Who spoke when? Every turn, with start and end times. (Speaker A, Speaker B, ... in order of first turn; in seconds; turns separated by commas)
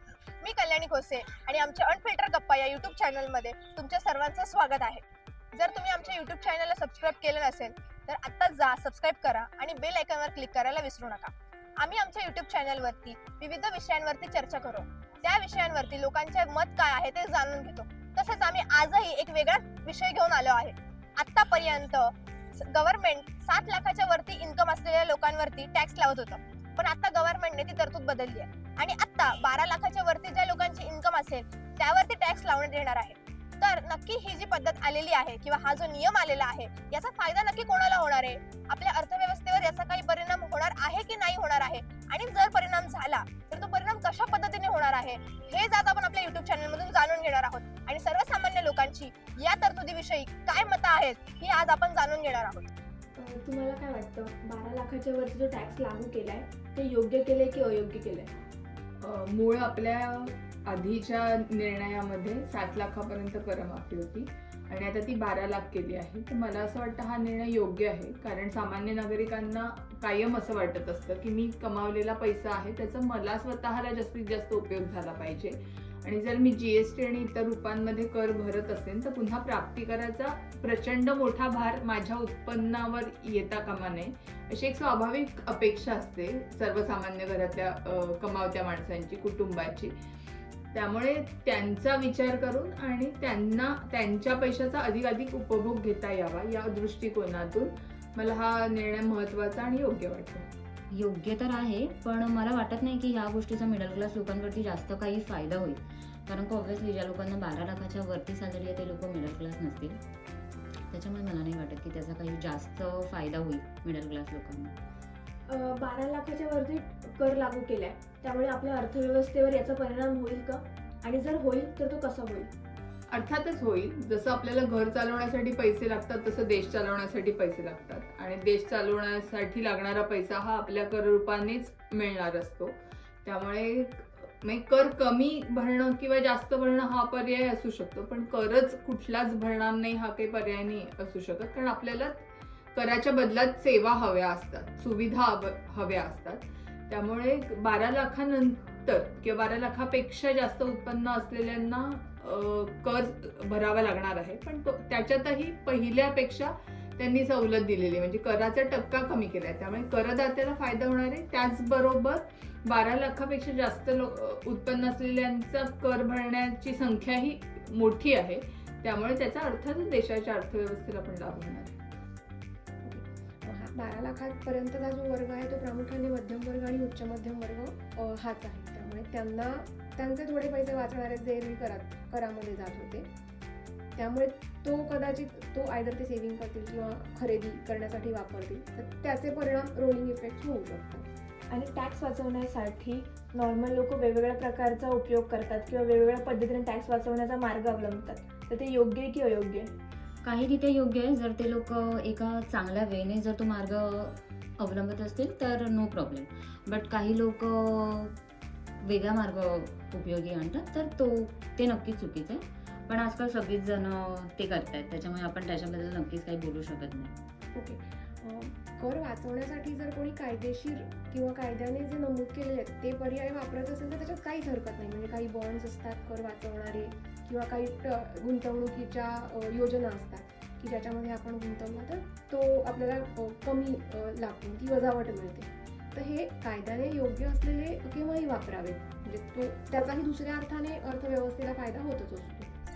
Speaker A: 0.4-52.7, Speaker B: 53.2-58.3, Speaker C: 59.0-89.9, Speaker C: 90.7-100.5, Speaker D: 100.9-110.0, Speaker D: 110.9-114.7, Speaker B: 115.5-122.5, Speaker C: 123.1-171.8, Speaker E: 172.8-183.1, Speaker E: 183.9-191.1, Speaker B: 191.5-199.7, Speaker D: 200.2-208.2, Speaker D: 208.8-217.1, Speaker E: 217.5-242.5